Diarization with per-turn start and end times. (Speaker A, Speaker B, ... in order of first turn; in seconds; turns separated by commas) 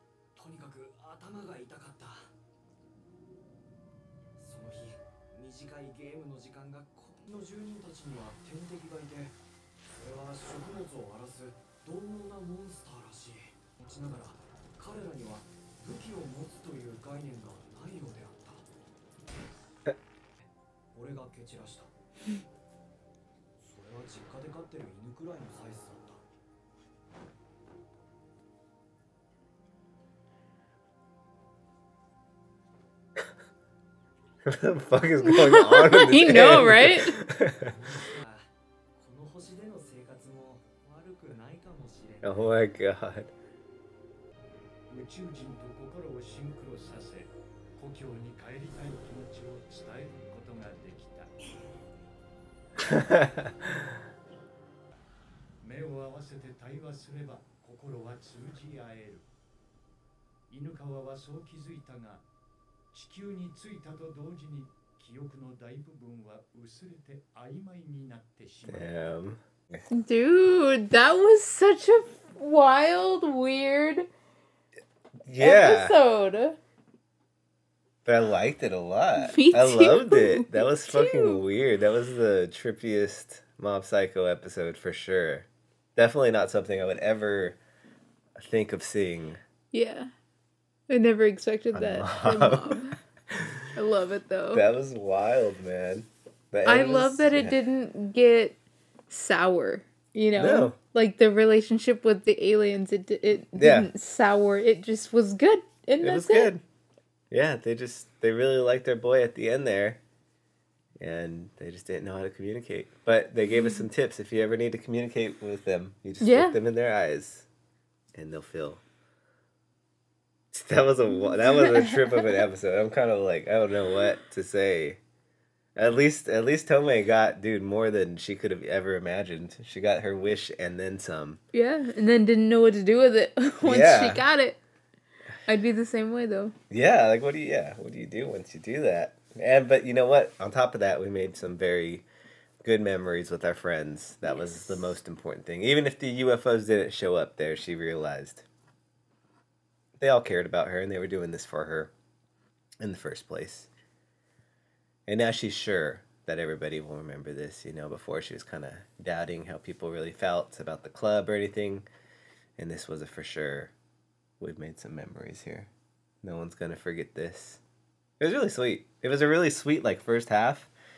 Speaker A: 0.3-2.3, Speaker A: 4.4-9.4, Speaker A: 10.0-18.6, Speaker A: 20.4-21.9, Speaker A: 23.6-26.2, Speaker B: 34.5-37.7, Speaker C: 35.2-37.1, Speaker A: 37.6-42.4, Speaker B: 42.2-43.3, Speaker D: 44.9-51.3, Speaker B: 53.0-53.5, Speaker D: 55.6-59.3, Speaker D: 60.5-62.2, Speaker D: 62.9-69.1, Speaker B: 68.7-69.8, Speaker C: 69.9-74.1, Speaker B: 75.2-76.0, Speaker C: 75.4-76.6, Speaker B: 78.0-87.6, Speaker C: 79.2-81.4, Speaker B: 88.4-89.4, Speaker C: 89.7-90.1, Speaker C: 90.9-93.0, Speaker B: 91.7-93.5, Speaker C: 93.8-94.6, Speaker B: 94.5-97.6, Speaker C: 96.7-106.5, Speaker B: 100.4-100.8, Speaker B: 103.5-103.9, Speaker B: 106.0-106.6, Speaker B: 107.3-110.0, Speaker B: 111.0-117.5, Speaker C: 116.2-116.6, Speaker B: 118.1-118.8, Speaker B: 120.5-125.0, Speaker C: 121.1-122.2, Speaker B: 125.8-131.4, Speaker C: 131.5-134.6, Speaker B: 133.6-134.3, Speaker C: 135.4-136.6, Speaker B: 136.7-142.1, Speaker B: 142.6-148.4, Speaker B: 150.0-151.9, Speaker B: 152.8-153.7, Speaker B: 155.1-161.9, Speaker B: 162.6-163.7, Speaker B: 164.4-165.7, Speaker B: 166.2-167.6, Speaker B: 168.2-170.7